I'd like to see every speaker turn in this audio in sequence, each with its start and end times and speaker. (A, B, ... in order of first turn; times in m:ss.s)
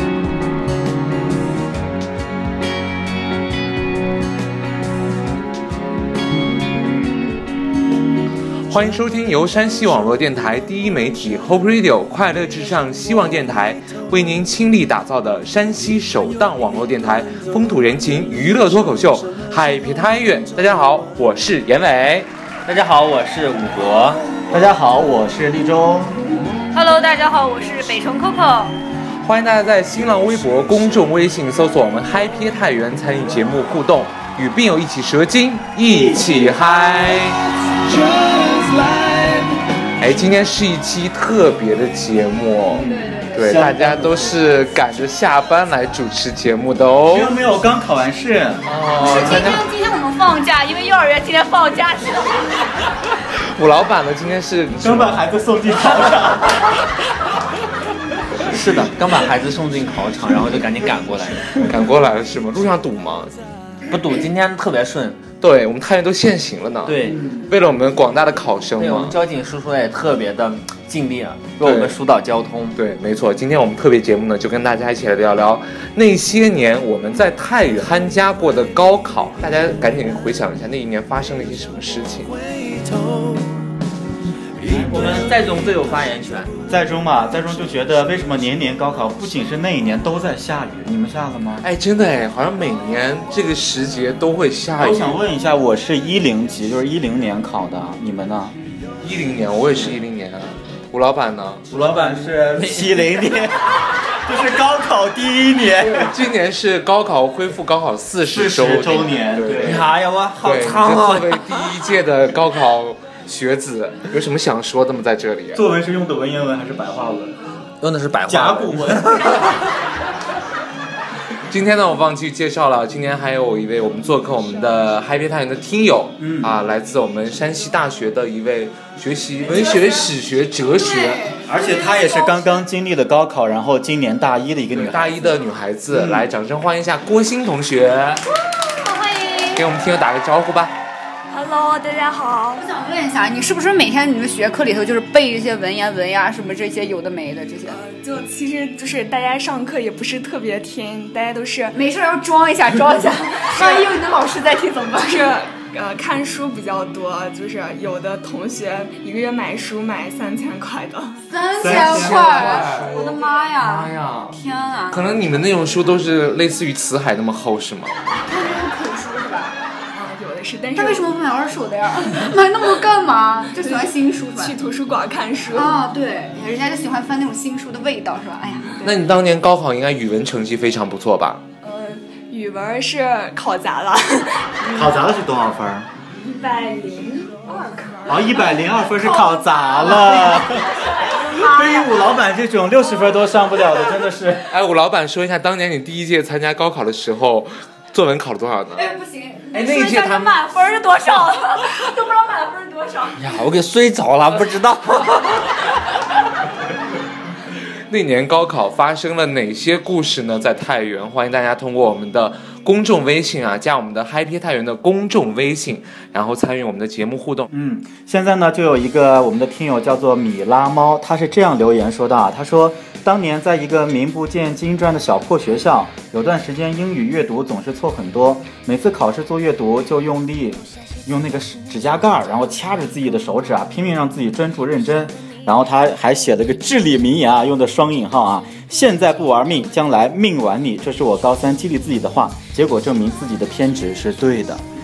0:08.7-0:22.3 A
0:22.7-0:24.3 B
0:24.5-0:26.3 C
0:26.7-0:28.7 D
0:29.2-0:37.4 A
0:35.9-0:39.5 C
0:40.0-0:47.4 A
0:42.7-0:44.6 C
0:42.8-0:43.4 D
0:47.1-0:49.6 C
0:48.6-0:49.6 A
0:49.0-0:52.6 D
0:53.5-0:55.3 A
0:54.8-0:56.6 C
0:58.5-1:01.7 B
1:01.6-1:03.4 A
1:03.9-1:05.2 B
1:05.4-1:09.2 A
1:06.8-1:07.3 B
1:08.8-1:12.8 B
1:11.6-1:12.0 A
1:12.8-1:22.3 A
1:24.6-1:25.2 C
1:24.7-1:26.5 B
1:26.7-1:31.7 C
1:31.6-1:35.2 A
1:34.8-1:38.5 C
1:39.0-1:41.6 A
1:41.7-1:46.1 C
1:41.9-1:43.2 B
1:45.8-1:55.6 A
1:48.3-1:49.9 C
1:49.5-1:51.7 B
1:55.5-1:57.5 C
1:57.8-1:59.6 B
1:58.3-1:59.5 C
2:01.5-2:11.3 A
2:06.2-2:06.5 C
2:09.4-2:10.1 D
2:10.7-2:12.6 D
2:11.4-2:15.3 C
2:14.7-2:18.2 A
2:15.9-2:16.3 C
2:18.5-2:19.6 D
2:19.5-2:20.7 A
2:21.3-2:22.6 E
2:22.6-2:27.8 D
2:27.7-2:31.8 E
2:31.7-2:35.4 D
2:33.4-2:33.9 E
2:35.0-2:41.2 E
2:41.3-2:45.2 D
2:41.6-2:42.6 C
2:41.6-2:44.4 A
2:42.8-2:43.2 E
2:44.9-2:47.9 A
2:48.2-2:49.6 D
2:49.9-2:51.1 E
2:50.8-2:54.6 D
2:53.6-2:55.8 E
2:55.5-2:58.8 D
2:58.8-2:59.0 E
2:58.8-3:01.4 A
3:01.6-3:05.1 E
3:04.7-3:05.9 C
3:06.2-3:08.7 E
3:07.5-3:12.2 D
3:08.0-3:10.7 C
3:11.2-3:14.4 C
3:14.5-3:18.9 A
3:18.7-3:23.2 D
3:19.5-3:20.4 A
3:23.2-3:25.6 B
3:27.9-3:37.5 A
3:37.5-4:04.6 C